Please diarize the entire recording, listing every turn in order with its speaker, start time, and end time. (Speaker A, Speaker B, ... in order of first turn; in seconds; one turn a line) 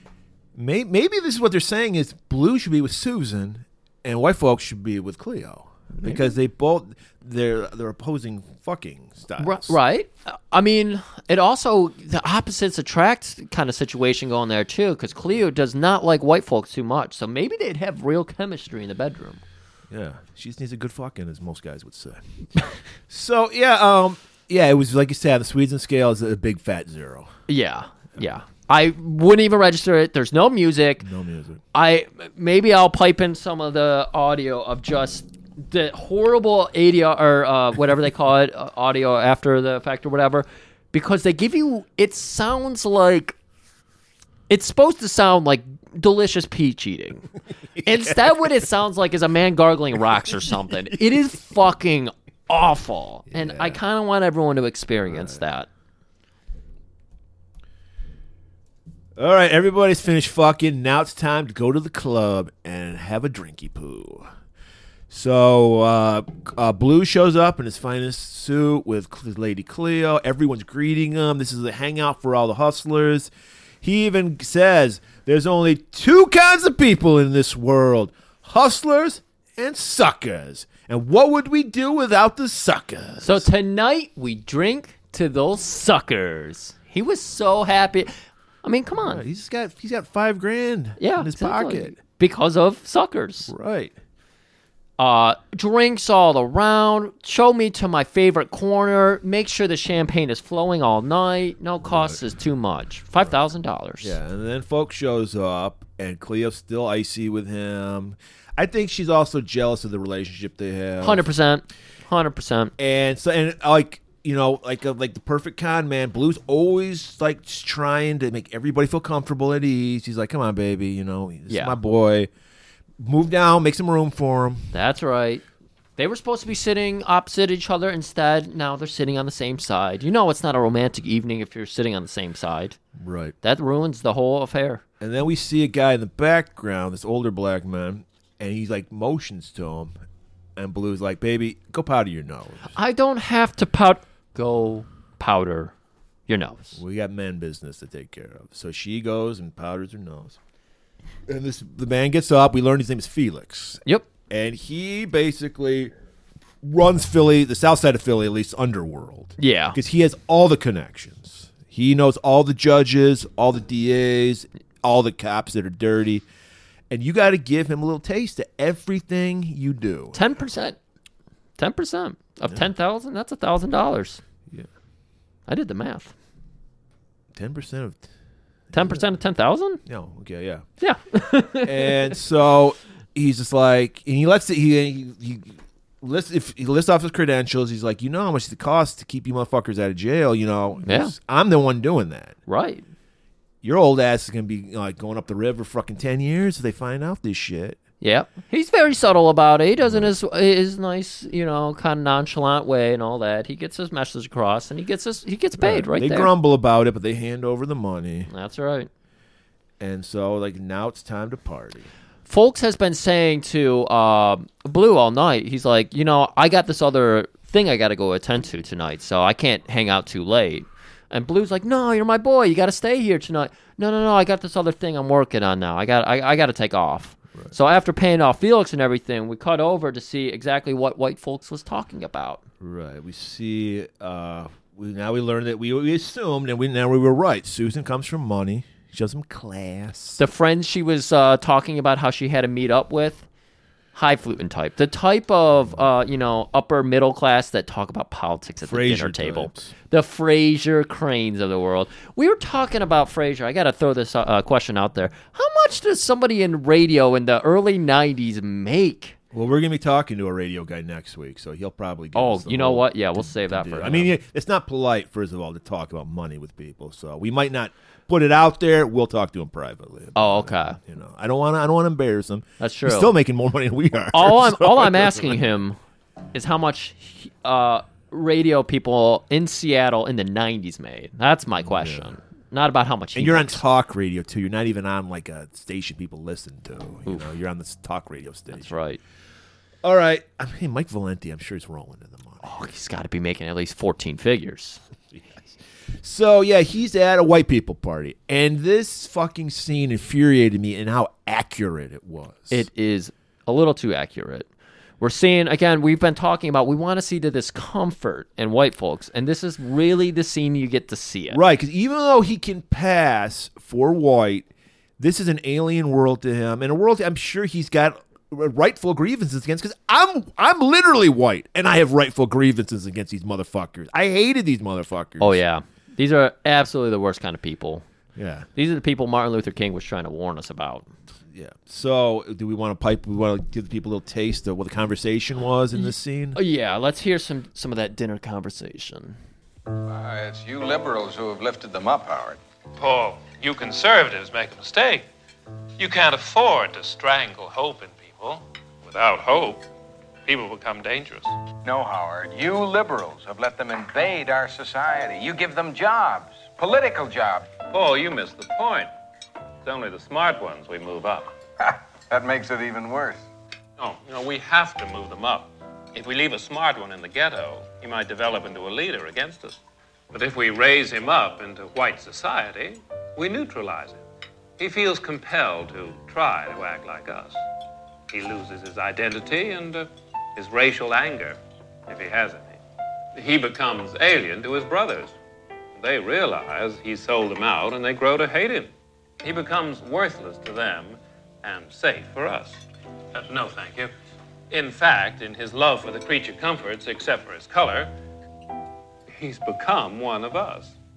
Speaker A: 0.6-9.8
Speaker B: 6.0-6.3
Speaker B: 9.4-19.4
Speaker A: 19.9-27.3
Speaker B: 27.5-31.1
Speaker A: 31.0-31.6
Speaker B: 31.7-43.4
Speaker B: 44.5-47.3
Speaker A: 47.8-48.5
Speaker B: 47.8-55.7
Speaker A: 53.3-53.8
Speaker A: 55.1-55.4
Speaker A: 59.2-64.3
Speaker A: 65.1-73.3
Speaker A: 73.8-83.5
Speaker B: 83.2-88.1
Speaker B: 88.6-89.2
Speaker A: 89.0-92.0
Speaker B: 91.0-93.5
Speaker A: 93.5-93.9
Speaker B: 95.0-104.2
Speaker A: 101.9-102.2
Speaker A: 104.0-111.3
Speaker B: 111.0-112.7
Speaker A: 112.8-122.3
Speaker B: 121.5-121.8
Speaker A: 123.0-124.7
Speaker B: 124.7-125.4
Speaker B: 126.0-132.8
Speaker A: 133.0-133.3
Speaker B: 133.4-134.8
Speaker A: 135.0-139.9
Speaker A: 140.6-142.8
Speaker B: 142.8-145.7
Speaker B: 146.3-146.8
Speaker A: 146.8-150.4
Speaker A: 151.3-155.9
Speaker A: 156.6-166.2
Speaker B: 159.4-159.8
Speaker A: 166.9-170.2
Speaker B: 170.1-170.8
Speaker B: 171.6-174.2
Speaker B: 175.5-176.1
Speaker A: 177.3-178.1
Speaker A: 178.7-179.0
Speaker B: 178.7-179.8
Speaker A: 179.9-180.6
Speaker B: 180.8-181.9
Speaker A: 181.6-192.4
Speaker B: 190.8-191.1
Speaker B: 192.5-192.8
Speaker A: 193.6-197.8
Speaker B: 198.0-206.3
Speaker A: 199.8-200.1
Speaker A: 205.6-208.3
Speaker B: 208.3-208.9
Speaker A: 209.8-211.9
Speaker B: 212.3-232.4
Speaker A: 232.6-240.2
Speaker B: 240.2-243.2
Speaker B: 243.9-259.2
Speaker A: 248.6-249.7
Speaker A: 259.3-275.4
Speaker B: 262.1-264.1
Speaker B: 270.2-270.8
Speaker B: 272.6-273.1
Speaker B: 274.1-275.8
Speaker B: 276.3-283.6
Speaker A: 281.7-282.1
Speaker A: 283.2-288.7
Speaker B: 288.5-289.0
Speaker A: 289.8-292.6
Speaker B: 292.4-294.8
Speaker A: 295.1-302.7
Speaker B: 302.5-304.5
Speaker B: 305.0-311.4
Speaker A: 311.3-314.5
Speaker A: 315.0-325.4
Speaker B: 325.2-327.8
Speaker A: 328.2-328.5
Speaker B: 328.6-330.9
Speaker A: 331.3-336.4
Speaker B: 335.8-339.2
Speaker C: 339.9-342.4
Speaker D: 342.8-345.1
Speaker D: 345.8-349.6
Speaker D: 350.2-351.4
Speaker C: 351.6-357.6
Speaker D: 357.6-358.9
Speaker D: 359.6-361.3
Speaker C: 361.6-363.2
Speaker D: 363.8-369.6
Speaker D: 370.1-374.0
Speaker D: 374.6-377.4
Speaker D: 378.1-382.6
Speaker D: 383.1-385.1
Speaker D: 385.8-388.7
Speaker D: 389.2-392.6
Speaker D: 393.1-393.9
Speaker D: 394.5-397.9
Speaker D: 399.1-400.8